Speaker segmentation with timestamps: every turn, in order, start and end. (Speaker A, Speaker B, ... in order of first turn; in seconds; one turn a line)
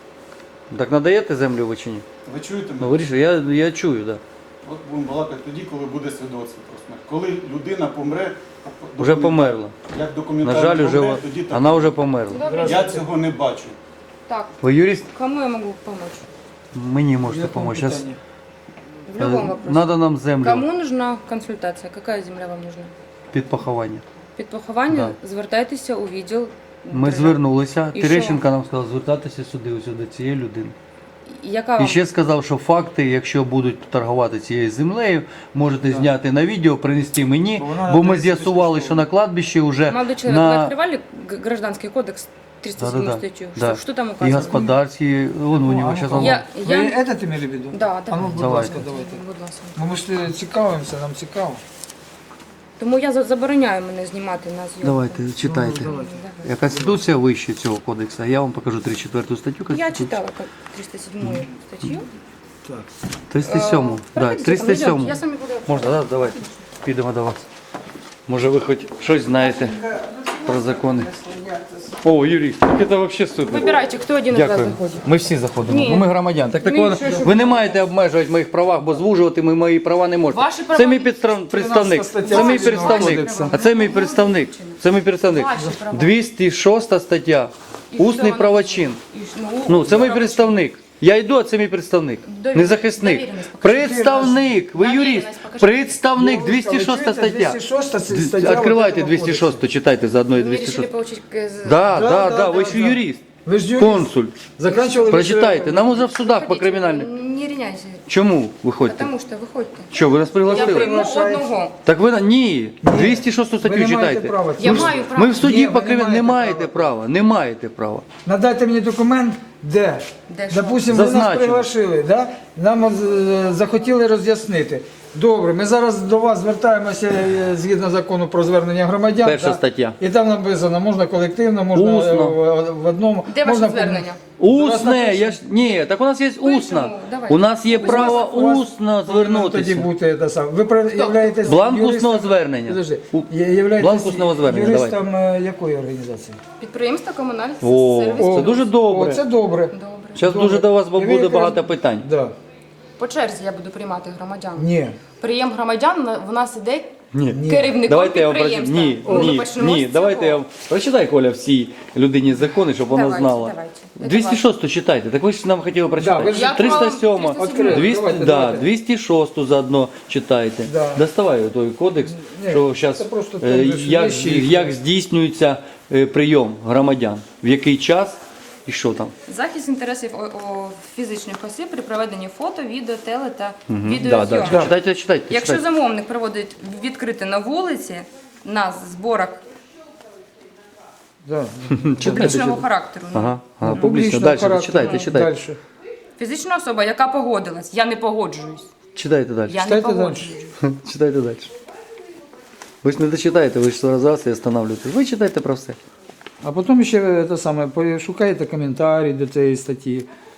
Speaker A: 0.7-2.0
Speaker B: 2.2-3.0
Speaker A: 2.8-4.2
Speaker B: 4.6-11.9
Speaker A: 9.0-9.7
Speaker A: 10.4-12.4
Speaker C: 12.3-13.0
Speaker D: 12.4-13.1
Speaker B: 12.6-13.8
Speaker C: 14.3-16.2
Speaker A: 14.6-15.1
Speaker A: 16.7-18.0
Speaker D: 17.2-18.2
Speaker C: 19.1-22.9
Speaker A: 19.2-20.7
Speaker A: 23.3-24.0
Speaker C: 24.4-27.4
Speaker A: 24.9-25.1
Speaker A: 26.9-30.7
Speaker C: 27.9-28.4
Speaker C: 31.3-32.0
Speaker A: 31.8-40.7
Speaker D: 37.5-39.0
Speaker C: 39.9-44.6
Speaker A: 42.8-46.4
Speaker D: 44.2-44.7
Speaker D: 45.5-49.2
Speaker C: 46.1-47.0
Speaker C: 47.7-49.8
Speaker A: 48.2-48.8
Speaker D: 49.7-51.6
Speaker C: 52.8-56.5
Speaker A: 54.8-55.9
Speaker D: 55.4-57.0
Speaker A: 56.4-60.1
Speaker C: 59.7-62.1
Speaker A: 63.3-67.4
Speaker C: 63.4-66.5
Speaker A: 68.3-69.8
Speaker D: 69.5-71.9
Speaker A: 70.4-71.1
Speaker A: 72.0-73.7
Speaker C: 73.5-75.0
Speaker A: 74.3-89.0
Speaker C: 75.6-76.1
Speaker C: 76.6-77.9
Speaker C: 80.3-81.4
Speaker D: 81.5-83.5
Speaker C: 82.2-86.2
Speaker C: 87.9-90.6
Speaker A: 89.7-100.9
Speaker C: 92.2-96.0
Speaker D: 93.8-94.5
Speaker D: 96.2-99.6
Speaker C: 100.3-101.8
Speaker A: 101.6-103.2
Speaker D: 101.9-106.0
Speaker A: 103.8-104.4
Speaker C: 104.6-105.2
Speaker A: 105.1-107.1
Speaker C: 106.1-108.0
Speaker A: 108.1-109.1
Speaker C: 108.8-111.8
Speaker A: 109.9-110.9
Speaker D: 110.4-111.5
Speaker A: 111.8-118.0
Speaker D: 112.8-116.9
Speaker C: 114.6-115.6
Speaker D: 118.2-135.4
Speaker C: 120.3-120.9
Speaker A: 120.9-121.7
Speaker A: 129.2-130.0
Speaker A: 131.7-132.4
Speaker C: 133.3-134.2
Speaker A: 134.4-139.9
Speaker C: 136.4-138.3
Speaker D: 137.8-146.4
Speaker C: 140.9-141.6
Speaker A: 141.4-145.0
Speaker C: 146.6-148.7
Speaker A: 147.6-149.2
Speaker D: 148.2-152.3
Speaker C: 149.7-150.2
Speaker A: 150.2-152.1
Speaker C: 153.0-160.4
Speaker D: 154.6-155.0
Speaker A: 157.1-179.1
Speaker D: 157.3-157.8
Speaker D: 159.0-159.4
Speaker C: 162.9-164.4
Speaker D: 165.9-168.7
Speaker C: 166.2-168.0
Speaker D: 170.6-171.0
Speaker D: 172.1-174.8
Speaker C: 179.2-184.7
Speaker A: 183.7-185.6
Speaker D: 184.4-184.7
Speaker C: 185.3-189.4
Speaker D: 191.2-192.6
Speaker A: 191.9-192.6
Speaker C: 192.0-193.8
Speaker A: 193.1-195.3
Speaker D: 193.6-195.6
Speaker C: 194.8-195.0
Speaker C: 196.2-198.7
Speaker A: 198.9-199.6
Speaker C: 199.5-200.6
Speaker D: 199.6-200.3
Speaker A: 200.6-201.5
Speaker A: 202.8-205.8
Speaker D: 206.4-210.1